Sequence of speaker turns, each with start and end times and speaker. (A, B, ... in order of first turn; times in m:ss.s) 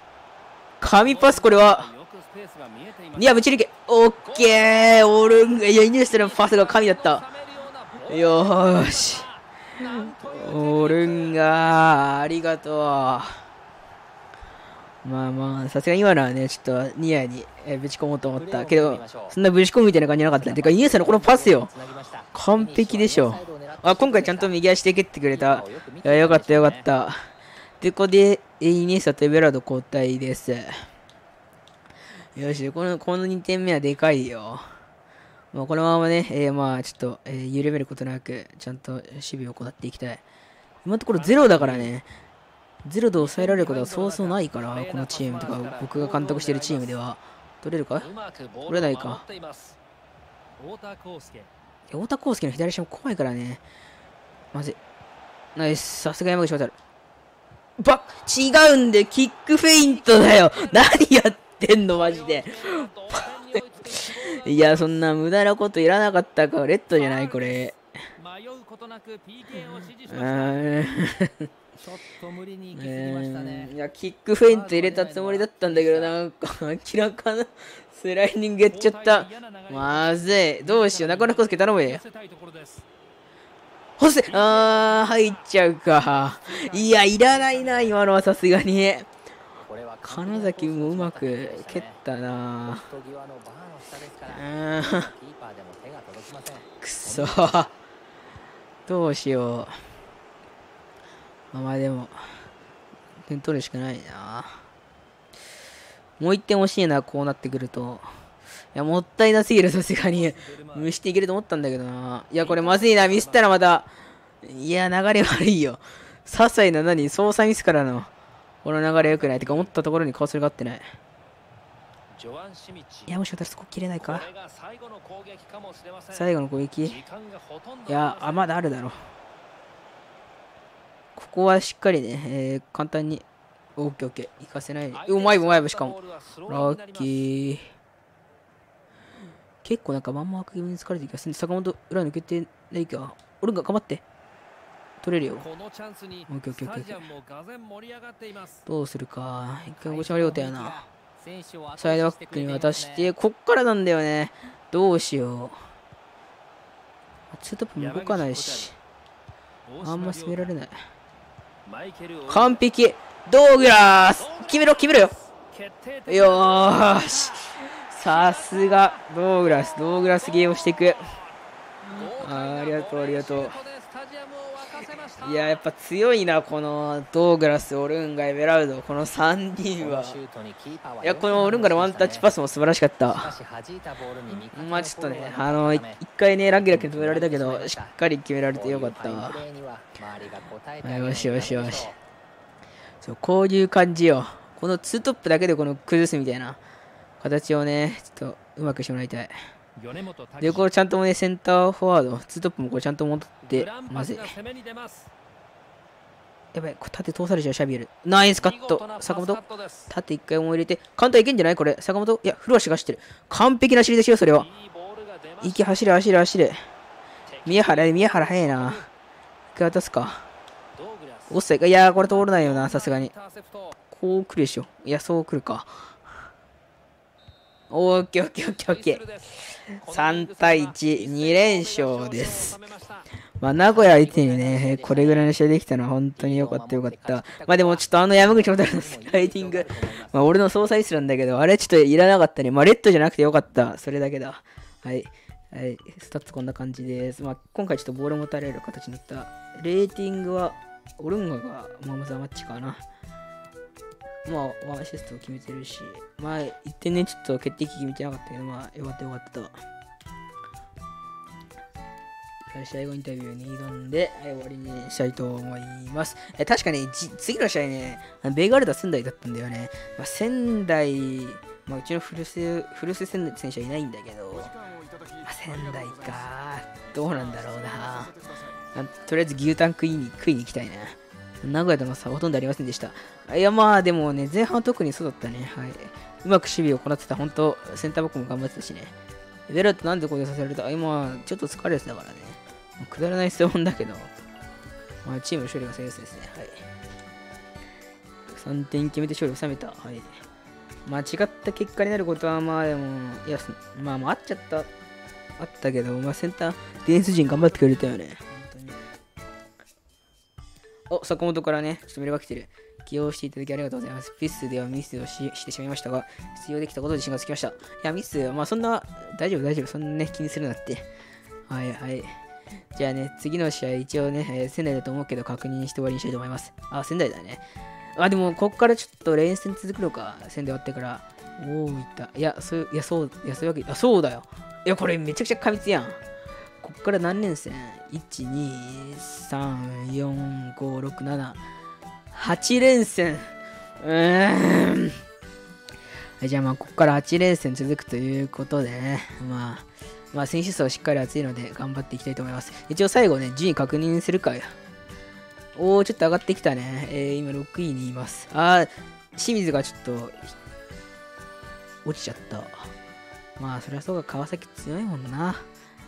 0:00.8-0:01.9 A
0:00.9-0:03.5 B
0:03.2-0:07.2 A
0:04.2-0:11.4 B
0:08.0-0:13.4 A
0:15.0-0:21.7 A
0:18.4-0:19.3 C
0:20.3-0:24.5 C
0:22.3-0:27.2 A
0:25.3-0:26.9 C
0:27.8-0:30.8 A
0:32.3-0:34.6 A
0:35.5-0:40.2 A
0:40.8-0:42.1 A
0:41.1-0:41.9 B
0:42.8-0:48.1 A
0:43.2-0:47.0 B
0:48.0-0:49.8 B
0:48.7-0:49.2 A
0:50.6-0:51.5 B
0:51.9-0:53.6 A
0:54.5-0:54.8 A
0:55.5-0:56.7 A
0:57.8-1:07.8 A
0:59.8-1:01.1 B
1:01.9-1:05.1 B
1:06.9-1:10.7 B
1:09.6-1:11.5 A
1:11.8-1:13.7 C
1:12.7-1:22.0 A
1:14.5-1:16.1 C
1:18.7-1:22.8 B
1:24.0-1:29.1 A
1:24.2-1:25.4 B
1:26.0-1:28.0 B
1:29.6-1:32.0 C
1:30.0-1:32.9 A
1:32.7-1:37.6 C
1:34.3-1:35.1 A
1:36.8-1:37.7 A
1:38.9-1:39.8 A
1:41.5-1:42.2 A
1:43.3-1:44.6 A
1:46.2-1:48.1 A
1:48.7-1:53.9 A
1:50.0-1:50.9 B
1:52.4-1:53.6 B
1:54.4-1:58.1 A
1:58.6-2:00.9 A
1:59.0-1:59.7 B
2:02.2-2:03.1 B
2:03.1-2:04.3 A
2:04.0-2:06.3 B
2:06.1-2:07.0 A
2:06.9-2:08.5 B
2:07.9-2:09.0 A
2:11.2-2:13.2 A
2:13.8-2:16.0 A
2:14.9-2:17.2 B
2:16.5-2:17.7 A
2:19.6-2:24.0 A
2:25.0-2:25.5 A
2:25.4-2:28.6 B
2:26.3-2:27.1 A
2:28.6-2:30.9 A
2:29.8-2:33.1 C
2:31.8-2:35.6 A
2:37.3-2:38.8 A
2:37.8-2:38.7 B
2:39.7-2:40.5 B
2:39.8-2:40.8 A
2:41.6-2:42.6 B
2:42.3-2:45.1 A
2:44.0-2:47.5 B
2:46.1-2:51.2 A
2:48.0-2:51.3 B
2:51.8-2:53.6 A
2:51.9-2:55.6 B
2:55.2-3:00.2 A
2:59.8-3:02.2 C
3:01.0-3:03.4 A
3:03.2-3:07.9 C
3:04.5-3:09.4 A
3:08.5-3:11.9 C
3:10.8-3:11.9 A
3:13.0-3:16.6 A
3:17.2-3:19.3 A
3:19.8-3:20.7 B
3:20.4-3:24.4 A
3:23.5-3:25.1 B
3:26.5-3:34.5 A
3:28.4-3:29.9 B
3:34.4-3:35.8 B
3:35.4-3:36.6 A
3:37.3-3:38.9 B
3:37.4-3:38.8 A
3:39.5-3:40.3 A
3:40.8-3:43.7 B
3:41.3-3:43.1 A
3:43.9-3:45.8 A
3:47.7-3:52.6 A
3:48.6-3:53.0 B
3:53.4-4:12.8 A
3:53.7-3:55.3 C
3:56.2-4:00.2 C
4:14.2-4:19.6 A
4:22.5-4:34.5 A
4:35.2-4:38.1 A
4:38.7-4:48.9 A
4:49.5-4:54.1 A
4:55.0-4:56.6 A
4:58.3-5:00.1 A
5:00.8-5:04.7 A
5:05.4-5:08.8 A
5:10.9-5:20.9 A
5:21.5-5:22.2 A
5:22.7-5:27.4 A
5:28.0-5:36.0 A
5:36.6-5:41.4 A
5:42.1-5:45.0 A
5:46.2-5:54.5 A
5:55.5-6:00.3 A
6:01.8-6:02.7 A
6:03.4-6:05.4 A